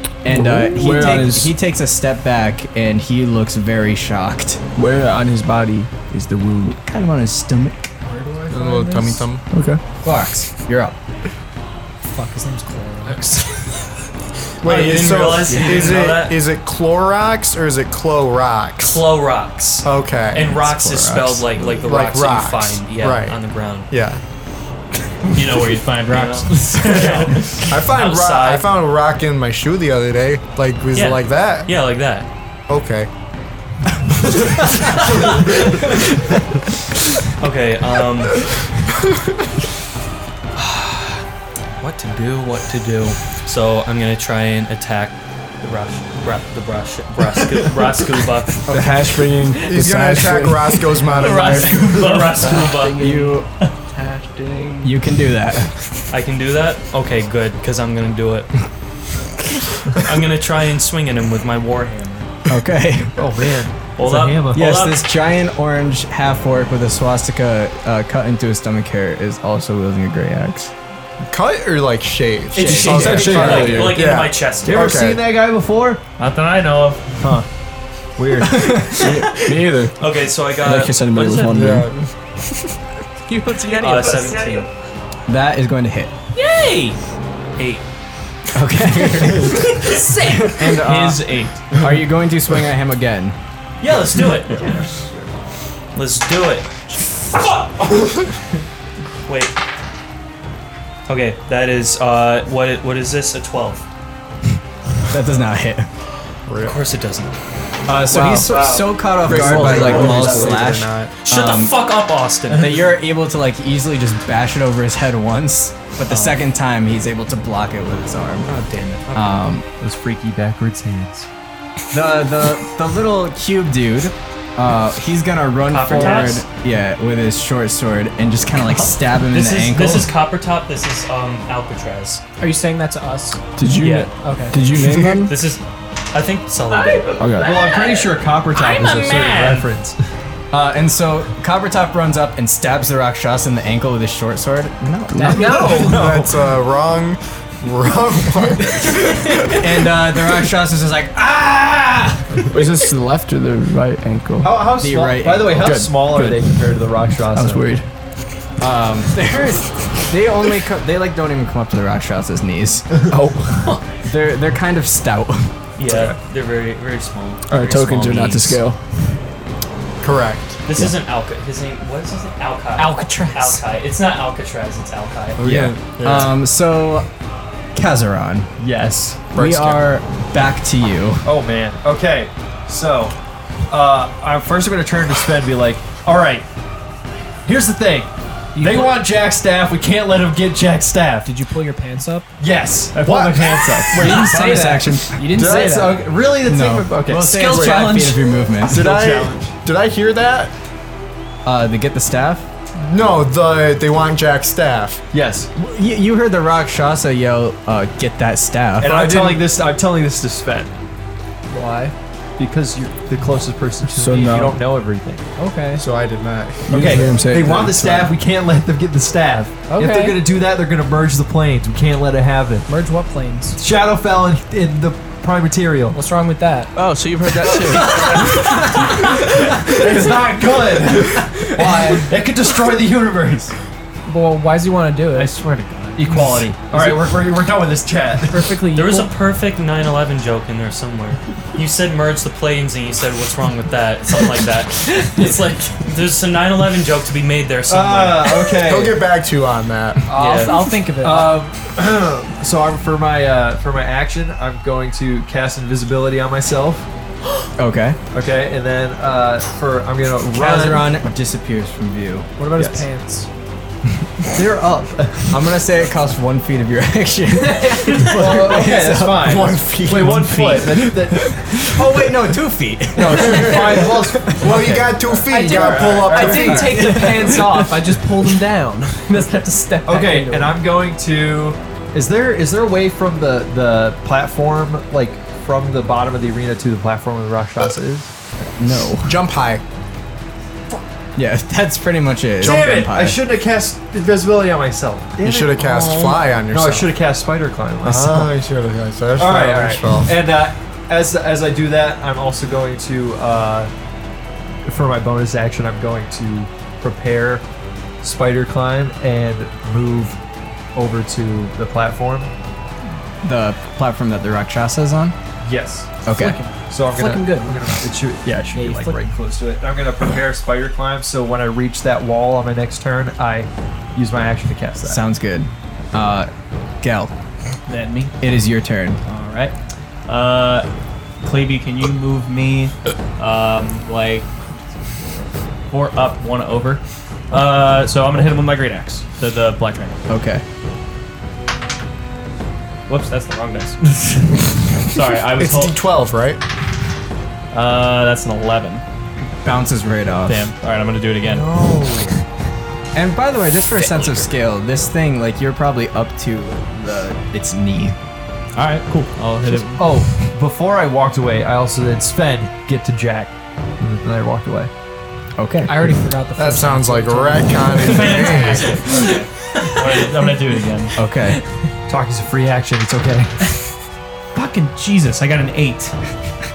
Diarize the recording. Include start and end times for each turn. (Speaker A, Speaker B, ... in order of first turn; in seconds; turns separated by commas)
Speaker A: 0.2-4.6, Speaker B: 0.2-1.5, Speaker B: 4.8-6.8, Speaker A: 6.7-7.9, Speaker C: 8.1-9.3, Speaker D: 8.5-9.4, Speaker B: 9.5-9.8, Speaker A: 10.0-10.9, Speaker C: 12.0-13.4, Speaker D: 14.6-19.1, Speaker E: 14.6-16.4, Speaker E: 18.8-23.9, Speaker D: 19.8-20.6, Speaker A: 20.6-21.7, Speaker D: 21.7-24.2, Speaker F: 25.3-27.7, Speaker E: 26.1-28.7, Speaker D: 27.7-31.7, Speaker E: 30.9-32.3, Speaker D: 32.7-33.1, Speaker E: 35.2-35.6, Speaker E: 37.4-38.5, Speaker E: 40.5-41.2, Speaker E: 41.8-48.6, Speaker B: 48.7-51.1, Speaker D: 49.7-52.1, Speaker G: 51.0-55.0, Speaker E: 51.8-53.0, Speaker A: 52.9-53.5, Speaker A: 54.8-55.8, Speaker E: 56.1-58.5, Speaker E: 59.9-62.3, Speaker A: 62.5-63.2, Speaker H: 63.2-64.8, Speaker E: 64.0-65.0, Speaker A: 64.4-70.7, Speaker D: 71.2-75.2, Speaker A: 72.5-73.5, Speaker H: 72.5-73.9, Speaker E: 72.8-74.9, Speaker B: 73.4-74.0, Speaker H: 74.7-76.1, Speaker F: 76.2-77.1, Speaker H: 77.2-77.5, Speaker H: 78.2-79.0, Speaker A: 78.4-79.1, Speaker B: 79.0-80.0, Speaker E: 80.0-81.6, Speaker B: 80.5-82.0, Speaker D: 81.5-82.1, Speaker G: 83.2-84.6, Speaker E: 83.8-84.7, Speaker A: 85.3-86.1, Speaker E: 86.3-87.0, Speaker E: 87.6-87.8, Speaker A: 88.5-93.4, Speaker E: 89.9-90.5, Speaker F: 90.5-91.8, Speaker E: 93.8-94.9, Speaker H: 94.6-95.1, Speaker E: 96.0-96.7, Speaker E: 97.3-98.2, Speaker E: 99.3-99.5, Speaker E: 101.1-103.8, Speaker A: 105.1-105.9, Speaker D: 106.5-106.8, Speaker E: 106.6-107.3, Speaker A: 107.9-111.8, Speaker D: 109.2-111.2, Speaker E: 109.7-110.4, Speaker H: 109.9-110.5, Speaker E: 111.2-112.9, Speaker A: 112.5-118.5, Speaker E: 116.1-116.4, Speaker E: 118.5-119.4, Speaker A: 119.1-119.7, Speaker H: 119.8-121.3, Speaker A: 121.9-130.1, Speaker E: 125.6-126.5, Speaker E: 128.8-132.2, Speaker C: 132.4-133.4, Speaker B: 133.6-135.4, Speaker E: 133.8-134.1, Speaker C: 134.2-134.8, Speaker E: 135.1-137.7, Speaker B: 137.2-137.5, Speaker H: 137.4-140.0, Speaker E: 138.6-139.7, Speaker A: 140.5-145.8, Speaker B: 145.1-145.5, Speaker C: 145.2-146.0, Speaker H: 145.4-146.5, Speaker D: 145.6-149.7, Speaker A: 149.6-152.5, Speaker B: 152.5-154.6, Speaker H: 154.4-157.7, Speaker A: 154.8-155.8, Speaker B: 155.6-156.6, Speaker B: 157.3-157.9, Speaker A: 158.6-162.9, Speaker B: 163.1-163.8, Speaker A: 164.1-165.5, Speaker E: 165.8-168.3, Speaker H: 165.9-166.2, Speaker B: 167.5-168.8, Speaker A: 167.8-168.6, Speaker D: 170.0-170.6, Speaker E: 170.7-175.4, Speaker C: 172.8-173.6, Speaker D: 175.4-176.4, Speaker A: 175.4-177.1, Speaker A: 177.7-178.5, Speaker H: 178.6-179.3, Speaker D: 179.3-179.8, Speaker A: 179.3-181.3, Speaker H: 181.2-183.2, Speaker H: 183.7-186.5, Speaker H: 187.4-191.3, Speaker C: 188.5-189.0, Speaker C: 191.2-192.3, Speaker H: 192.4-194.2, Speaker D: 193.0-194.6, Speaker C: 194.0-196.0, Speaker A: 194.0-195.2, Speaker D: 195.3-195.8, Speaker H: 195.3-199.5, Speaker A: 196.4-198.8, Speaker D: 197.3-198.0, Speaker D: 198.7-200.5, Speaker A: 201.4-202.5, Speaker D: 202.8-205.0, Speaker H: 205.1-205.5, Speaker A: 205.6-209.0, Speaker H: 208.8-210.8, Speaker D: 208.8-209.4, Speaker C: 211.5-211.9, Speaker H: 212.4-215.2, Speaker B: 213.9-214.6, Speaker C: 215.4-215.8, Speaker D: 215.8-217.2, Speaker B: 216.7-218.1, Speaker H: 216.7-222.7, Speaker C: 219.7-220.2, Speaker C: 222.7-223.6, Speaker H: 223.6-226.0, Speaker C: 225.9-226.7, Speaker G: 226.8-228.8, Speaker H: 227.7-233.5, Speaker C: 234.1-235.3, Speaker H: 235.2-238.6, Speaker F: 235.4-236.4, Speaker C: 236.7-237.0, Speaker C: 238.2-239.1, Speaker E: 238.7-248.5, Speaker H: 247.7-249.0, Speaker D: 248.6-250.1, Speaker C: 250.1-251.4, Speaker E: 250.1-250.6, Speaker H: 251.0-256.9, Speaker A: 257.6-258.0, Speaker H: 258.1-260.9, Speaker A: 260.3-262.3, Speaker C: 262.4-263.3, Speaker H: 262.6-262.9, Speaker H: 264.3-265.6, Speaker A: 265.3-269.4, Speaker C: 267.3-268.6, Speaker H: 268.0-271.7, Speaker D: 269.2-270.7, Speaker A: 270.6-274.5, Speaker H: 272.9-277.4, Speaker D: 273.0-277.1, Speaker C: 275.3-280.6, Speaker A: 276.7-277.4, Speaker H: 279.9-288.1, Speaker A: 288.6-289.2, Speaker D: 289.1-289.6, Speaker A: 291.2-293.2, Speaker H: 292.4-298.3, Speaker D: 295.2-296.9, Speaker D: 297.8-300.2, Speaker H: 299.2-303.7, Speaker H: 304.6-307.4, Speaker H: 308.0-310.2, Speaker H: 310.8-312.3, Speaker A: 313.2-315.2, Speaker H: 315.4-315.9, Speaker A: 316.0-316.4, Speaker C: 316.1-317.6, Speaker H: 316.7-325.0, Speaker C: 318.5-319.1, Speaker A: 324.9-326.3, Speaker A: 326.8-327.1, Speaker F: 327.7-328.2, Speaker A: 328.2-329.0, Speaker F: 329.0-329.5, Speaker F: 330.1-330.7, Speaker F: 331.2-334.3, Speaker F: 335.1-340.0, Speaker A: 340.1-340.4, Speaker F: 342.9-345.8, Speaker D: 345.3-346.4, Speaker F: 347.5-348.8, Speaker A: 349.4-350.5, Speaker F: 350.2-351.6, Speaker D: 351.3-352.2, Speaker A: 352.9-358.0, Speaker F: 358.6-360.0, Speaker H: 359.8-364.7, Speaker A: 365.4-366.0, Speaker C: 365.6-368.9, Speaker D: 366.4-368.9, Speaker F: 367.8-371.0, Speaker E: 368.9-369.2, Speaker A: 370.9-371.4, Speaker H: 371.9-373.4, Speaker F: 374.3-375.9